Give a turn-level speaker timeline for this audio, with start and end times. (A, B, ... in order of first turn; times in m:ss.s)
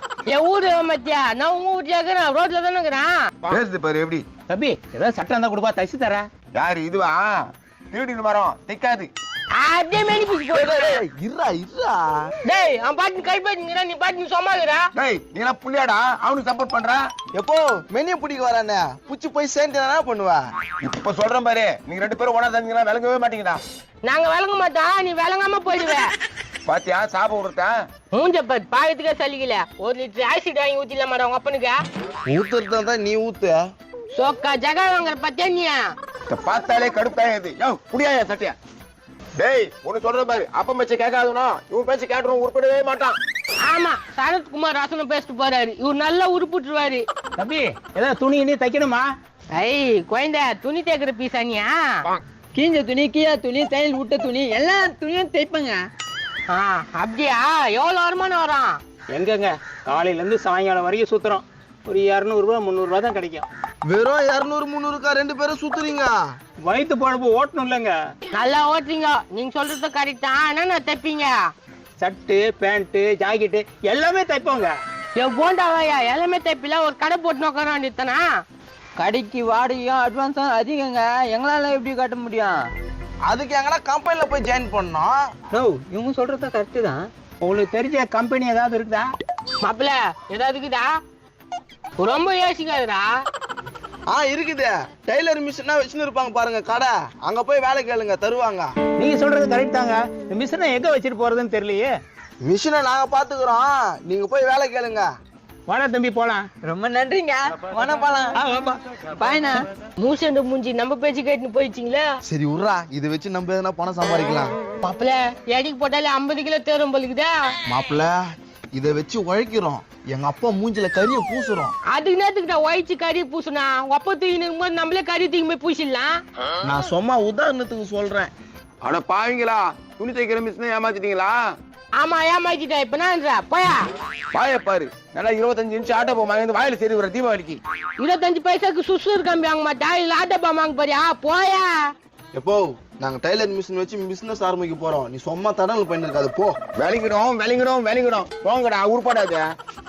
0:00.3-0:03.3 A
0:03.5-0:04.2 B
0:04.5-0:06.3 C
0:06.6-0:07.2 B
0:07.9-0:09.1 B
0:09.5-0:10.8 A
0:10.5-0:12.3 D
0:12.4-0:14.9 A
0:15.0-0:17.0 B
0:17.3-0:20.4 D
0:20.8-0:23.6 B
0:24.0-0:26.1 A
0:26.7-0:27.8 B
0:28.1-0:31.8 A
0:32.3-0:33.6 D
0:34.1-0:35.8 A
0:36.3-0:38.6 B
0:39.4-0:43.2 B
0:43.6-0:47.1 A
0:47.4-0:49.1 C
0:49.6-0:52.0 A
0:52.6-0:55.8 E
0:56.5-0:58.8 A
0:59.1-1:03.5 C
1:03.9-1:06.2 D
1:06.6-1:08.0 C
1:08.3-1:11.5 A
1:12.0-1:14.7 C
1:15.2-1:18.3 A
1:19.0-1:22.6 E
1:23.3-1:25.2 D
1:25.7-1:27.1 E
1:27.4-1:29.1 C
1:29.6-1:31.0 A
1:32.0-1:33.1 A
1:34.1-1:38.7 D
1:39.0-1:42.0 C
1:42.4-1:45.1 D
1:45.7-1:46.5 C
1:46.6-1:49.7 E
1:50.0-1:52.1 A
1:52.3-1:54.5 D
1:54.8-1:57.5 A
1:57.7-1:58.2 D
1:58.8-2:01.7 D
2:01.9-2:06.2 A
2:06.7-2:08.3 D
2:08.8-2:11.4 B
2:12.0-2:13.8 A
2:14.3-2:17.6 B
2:18.0-2:21.9 A
2:22.3-2:26.6 D
2:26.8-2:29.4 B